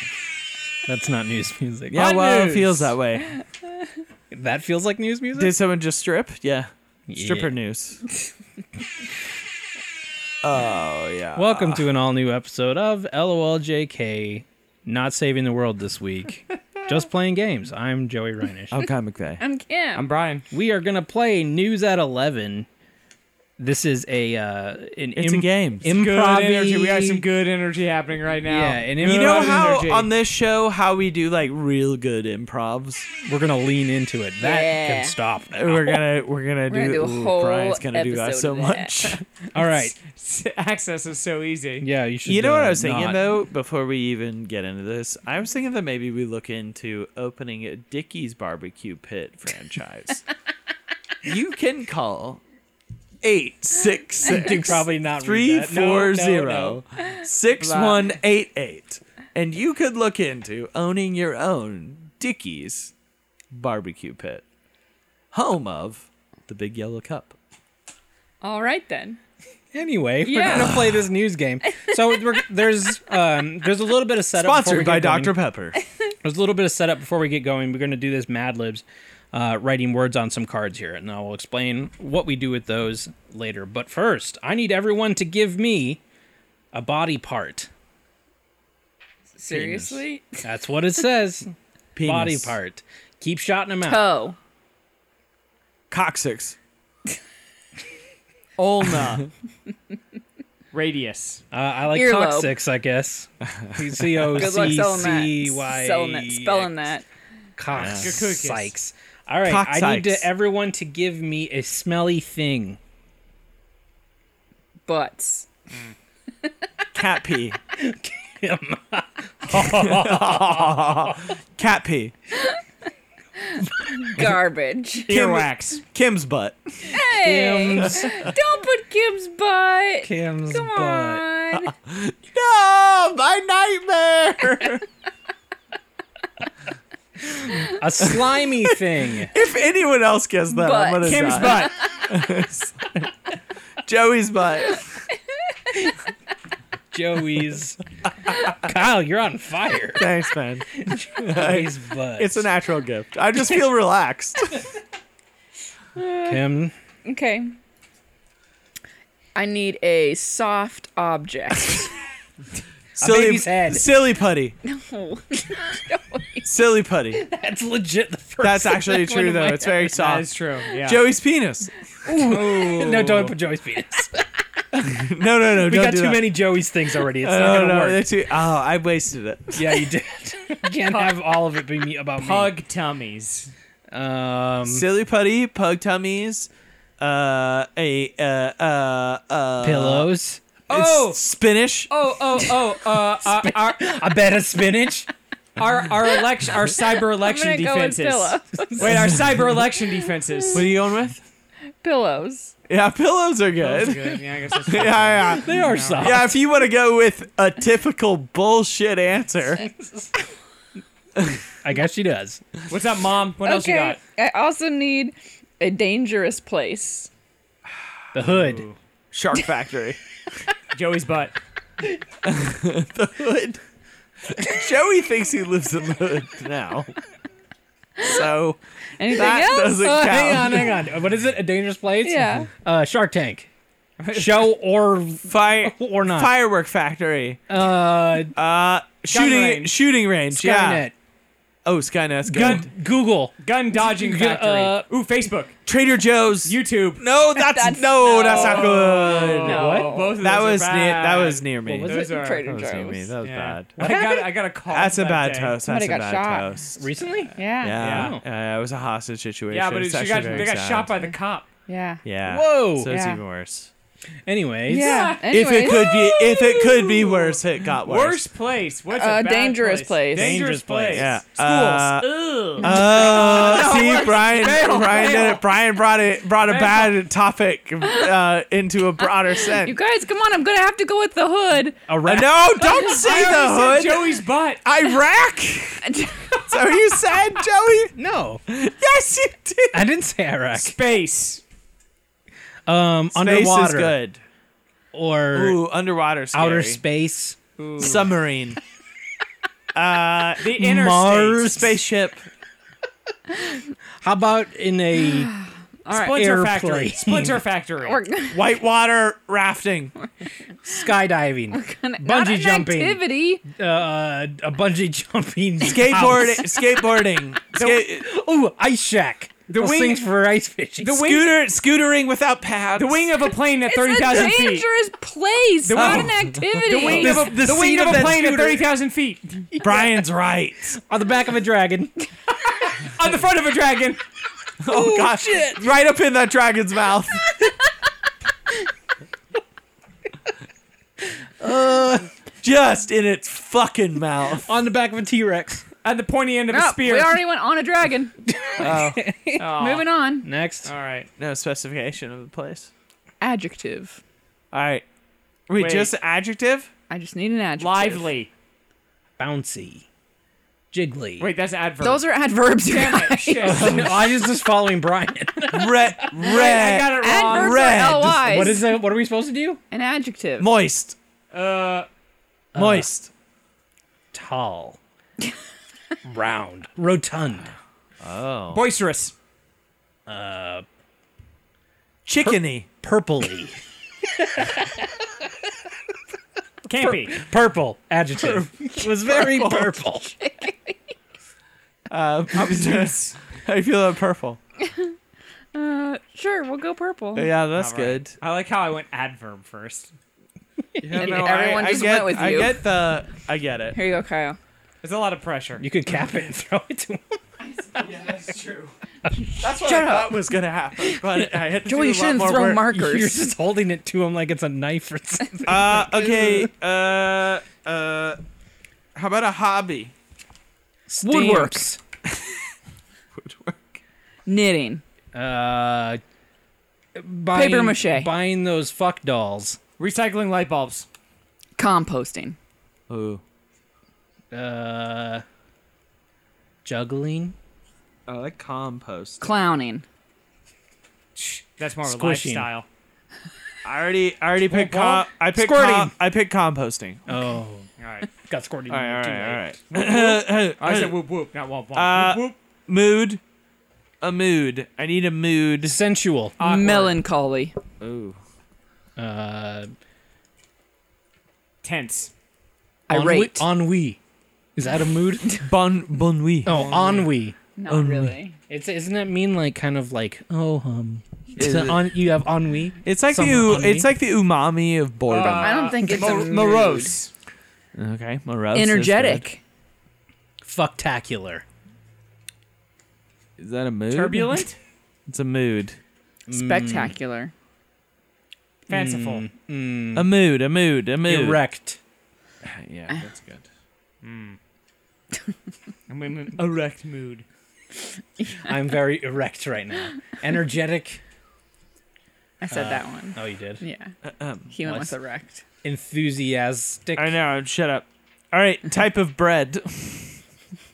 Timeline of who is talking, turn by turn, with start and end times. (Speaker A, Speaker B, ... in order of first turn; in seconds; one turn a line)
Speaker A: 0.9-3.0
Speaker B: 1.9-3.4
Speaker C: 2.1-2.6
Speaker A: 4.3-5.5
Speaker B: 5.3-8.0
Speaker A: 7.1-7.5
Speaker B: 10.4-11.8
Speaker A: 11.3-18.8
Speaker B: 18.7-19.4
Speaker D: 19.4-20.0
Speaker C: 19.9-20.4
Speaker A: 20.5-22.7
Speaker A: 23.6-27.2
Speaker B: 25.1-25.9
Speaker C: 25.8-30.1
Speaker A: 28.4-29.8
Speaker B: 29.0-33.1
Speaker A: 33.2-36.0
Speaker D: 34.4-35.1
Speaker B: 35.5-39.2
Speaker D: 36.7-39.1
Speaker A: 39.5-39.9
Speaker C: 39.6-41.9
Speaker A: 41.8-43.2
Speaker B: 42.2-50.2
Speaker B: 51.2-52.4
Speaker B: 53.2-62.9
Speaker A: 54.2-56.8
Speaker C: 57.6-58.1
Speaker B: 63.5-64.4
Speaker B: 65.3-67.3
Speaker D: 68.4-69.2
Speaker A: 69.7-75.4
Speaker D: 70.2-70.9
Speaker B: 74.3-75.8
Speaker A: 76.2-86.0
Speaker A: 86.7-87.7
Speaker D: 89.4-90.4
Speaker B: 89.5-90.0
Speaker A: 90.4-91.5
Speaker B: 91.9-92.5
Speaker A: 92.0-94.1
Speaker D: 93.9-94.4
Speaker B: 95.9-96.5
Speaker C: 98.6-99.3
Speaker C: 100.7-101.4
Speaker A: 101.5-106.9
Speaker D: 101.9-102.5
Speaker D: 104.3-107.0
Speaker A: 107.5-112.8
Speaker B: 107.7-108.1
Speaker C: 107.8-108.7
Speaker B: 109.5-110.2
Speaker D: 114.9-115.5
Speaker B: 116.9-117.6
Speaker A: 117.8-121.3
Speaker B: 119.5-122.1
Speaker D: 123.4-125.1
Speaker C: 125.1-125.8
Speaker B: 125.1-127.0
Speaker D: 126.8-131.7
Speaker A: 127.2-128.3
Speaker A: 130.0-131.2
Speaker B: 131.6-134.8
Speaker A: 137.6-139.3
Speaker B: 139.2-143.1
Speaker D: 140.6-141.7
Speaker C: 141.0-141.7
Speaker B: 143.8-144.9
Speaker A: 146.9-147.8
Speaker A: 148.3-150.1
Speaker B: 149.9-154.6
Speaker A: 150.8-152.5
Speaker D: 155.9-156.4
Speaker A: 156.3-156.7
Speaker D: 157.1-157.5
Speaker D: 159.3-161.8
Speaker B: 162.9-164.6
Speaker A: 163.0-163.9
Speaker D: 164.6-166.5
Speaker B: 166.4-167.2
Speaker A: 167.1-168.9
Speaker B: 168.4-170.3
Speaker D: 168.8-169.9
Speaker C: 169.9-171.1
Speaker B: 170.8-171.7
Speaker A: 172.0-174.4
Speaker C: 172.1-173.3
Speaker B: 172.3-173.3
Speaker B: 174.7-176.3
Speaker A: 175.5-178.1
Speaker B: 177.2-179.8
Speaker A: 179.5-182.6
Speaker C: 180.8-181.1
Speaker C: 182.2-183.5
Speaker A: 183.9-184.8
Speaker B: 184.7-190.1
Speaker A: 189.6-190.4
Speaker C: 190.7-191.2
Speaker B: 190.7-191.9
Speaker C: 191.9-193.9
Speaker A: 193.2-195.1
Speaker C: 195.6-200.7
Speaker D: 197.1-199.0
Speaker A: 198.8-199.0
Speaker B: 198.8-199.2
Speaker B: 200.5-201.2
Speaker D: 201.8-202.5
Speaker B: 202.7-209.6
Speaker C: 203.6-206.2
Speaker A: 205.3-206.4
Speaker B: 211.2-211.4
Speaker A: 211.6-212.4
Speaker C: 212.7-214.0
Speaker D: 213.4-217.1
Speaker A: 218.1-218.7
Speaker C: 218.3-218.8
Speaker B: 219.1-220.0
Speaker C: 220.7-221.3
Speaker B: 222.2-223.6
Speaker B: 224.2-226.9
Speaker B: 228.0-230.8
Speaker D: 229.0-230.0
Speaker A: 229.8-233.5
Speaker D: 232.0-232.5
Speaker C: 234.0-234.4
Speaker A: 234.1-236.3
Speaker B: 235.2-237.4
Speaker A: 237.5-238.3
Speaker B: 238.3-240.9
Speaker C: 239.1-239.7
Speaker A: 240.3-240.9
Speaker B: 241.6-242.7
Speaker A: 242.2-244.8
Speaker C: 243.4-245.6
Speaker B: 245.7-253.8
Speaker C: 246.4-247.0
Speaker D: 247.3-250.2
Speaker C: 248.1-252.5
Speaker A: 249.5-249.9
Speaker A: 251.7-252.1
Speaker D: 251.9-253.1
Speaker C: 253.2-255.6
Speaker A: 253.8-254.3
Speaker B: 254.7-256.9
Speaker D: 255.6-256.5
Speaker A: 256.8-258.2
Speaker D: 257.3-257.8
Speaker B: 257.6-260.9
Speaker C: 257.8-258.1
Speaker C: 259.5-261.5
Speaker D: 261.7-262.0
Speaker B: 262.0-263.7
Speaker A: 262.3-263.0
Speaker D: 262.9-263.2
Speaker A: 264.2-265.2
Speaker D: 264.7-266.8
Speaker C: 264.7-275.4
Speaker B: 265.3-268.2
Speaker D: 268.9-270.4
Speaker A: 270.1-271.2
Speaker B: 270.9-279.8
Speaker D: 272.6-273.7
Speaker C: 276.4-277.0
Speaker D: 279.6-281.8
Speaker A: 281.9-282.3
Speaker B: 282.0-287.9
Speaker C: 282.7-284.6
Speaker D: 285.9-286.4
Speaker A: 287.9-288.4
Speaker B: 288.5-289.8
Speaker A: 289.7-290.7
Speaker C: 290.5-291.4
Speaker A: 292.6-293.9
Speaker B: 293.1-294.2
Speaker A: 294.9-295.6
Speaker B: 295.3-296.8
Speaker A: 296.3-297.4
Speaker C: 297.6-298.1
Speaker B: 297.8-298.6
Speaker B: 299.7-300.4
Speaker C: 300.4-301.5
Speaker A: 300.5-301.8
Speaker B: 301.4-302.2
Speaker A: 304.0-305.3
Speaker D: 305.8-306.1
Speaker C: 305.9-308.0
Speaker A: 306.0-307.4
Speaker D: 307.8-308.4
Speaker B: 308.3-309.9
Speaker A: 310.6-316.5
Speaker D: 311.5-313.4
Speaker B: 315.6-318.1
Speaker C: 317.5-317.9
Speaker A: 317.9-321.0
Speaker C: 319.5-320.0
Speaker C: 320.8-321.4
Speaker B: 320.9-323.1
Speaker C: 322.8-324.7
Speaker D: 323.7-327.3
Speaker C: 325.6-329.5
Speaker B: 325.7-327.9
Speaker A: 326.8-328.7
Speaker A: 329.5-330.0
Speaker B: 329.6-330.8
Speaker A: 330.8-331.9
Speaker C: 332.8-334.0
Speaker B: 334.6-337.4
Speaker A: 334.6-335.7
Speaker A: 341.4-342.1
Speaker B: 342.4-344.5
Speaker A: 344.4-345.6
Speaker C: 345.8-347.2
Speaker D: 346.5-348.1
Speaker A: 348.3-349.5
Speaker B: 348.6-349.0
Speaker C: 349.4-349.9
Speaker D: 349.5-350.2
Speaker A: 350.2-350.7
Speaker C: 350.6-351.1
Speaker B: 351.2-352.7
Speaker D: 353.2-354.0
Speaker B: 354.5-354.8
Speaker B: 355.5-356.7
Speaker C: 355.6-355.9
Speaker D: 356.9-358.1
Speaker C: 357.6-358.3
Speaker A: 359.2-359.8
Speaker A: 360.7-361.3
Speaker C: 361.2-362.0
Speaker D: 361.8-363.8
Speaker C: 362.6-364.0
Speaker A: 363.4-366.2
Speaker B: 363.7-363.9
Speaker B: 365.5-368.2
Speaker C: 366.1-367.8
Speaker D: 366.9-368.6
Speaker A: 368.0-369.6
Speaker D: 369.7-370.5
Speaker B: 370.4-371.0
Speaker C: 371.3-371.9
Speaker A: 372.5-372.9
Speaker B: 372.5-373.1
Speaker A: 374.1-374.8
Speaker A: 376.0-377.5
Speaker B: 378.0-378.6
Speaker C: 378.5-379.1
Speaker A: 380.1-380.6
Speaker B: 382.0-382.7
Speaker A: 382.2-385.1
Speaker C: 386.7-387.2
Speaker A: 386.7-390.2
Speaker B: 388.2-389.7
Speaker D: 390.2-390.7
Speaker B: 391.9-394.4
Speaker D: 394.6-394.9
Speaker D: 395.5-397.3
Speaker B: 397.1-398.1
Speaker C: 397.5-399.9
Speaker B: 400.8-403.8
Speaker D: 400.9-402.6
Speaker D: 403.7-404.4
Speaker C: 404.8-405.6
Speaker A: 405.6-407.2
Speaker B: 407.7-408.7
Speaker D: 409.2-410.2
Speaker B: 409.4-412.7
Speaker D: 411.6-413.2
Speaker A: 412.7-416.5
Speaker B: 415.4-418.2
Speaker B: 418.9-419.9
Speaker A: 420.9-421.8
Speaker D: 421.0-421.6
Speaker B: 423.1-423.8
Speaker D: 424.2-424.8
Speaker A: 425.1-426.0
Speaker A: 426.9-429.6
Speaker D: 427.3-428.1
Speaker C: 429.8-430.9
Speaker D: 431.6-432.4
Speaker B: 432.9-433.2
Speaker A: 434.3-435.2
Speaker A: 436.6-437.3
Speaker B: 438.1-439.3
Speaker D: 439.2-439.9
Speaker C: 441.1-442.6
Speaker A: 441.8-442.5
Speaker B: 443.6-447.0
Speaker C: 444.5-445.0
Speaker A: 444.7-445.9
Speaker A: 447.1-447.7
Speaker C: 447.8-448.1
Speaker A: 448.3-449.4
Speaker B: 448.7-451.0
Speaker C: 449.7-452.3
Speaker B: 451.7-453.2
Speaker B: 454.0-455.8
Speaker A: 455.6-456.3
Speaker C: 456.4-457.0
Speaker D: 456.4-457.5
Speaker B: 457.8-458.2
Speaker A: 459.0-459.7
Speaker C: 461.6-462.1
Speaker D: 462.9-463.5
Speaker A: 462.9-464.0
Speaker A: 464.6-465.4
Speaker B: 465.4-466.8
Speaker A: 466.4-467.4
Speaker C: 466.5-467.0
Speaker D: 467.6-468.4
Speaker B: 467.7-468.2
Speaker A: 468.5-473.9
Speaker B: 471.4-471.9
Speaker B: 472.8-475.7
Speaker C: 475.1-477.1
Speaker D: 475.4-476.9
Speaker B: 477.7-479.2
Speaker D: 478.5-479.4
Speaker A: 480.4-481.4
Speaker B: 483.4-484.4
Speaker C: 483.9-484.6
Speaker B: 485.1-485.8
Speaker A: 486.3-486.9
Speaker D: 486.3-487.3
Speaker C: 488.7-489.3
Speaker A: 488.7-490.1
Speaker B: 489.9-491.4
Speaker A: 491.0-491.8
Speaker B: 492.4-493.4
Speaker C: 494.0-494.4
Speaker C: 495.9-497.2
Speaker A: 498.4-501.0
Speaker D: 502.4-503.9
Speaker A: 502.5-503.6
Speaker B: 504.0-504.5
Speaker D: 504.5-505.4
Speaker A: 504.6-504.9
Speaker A: 505.6-507.2
Speaker B: 506.9-510.1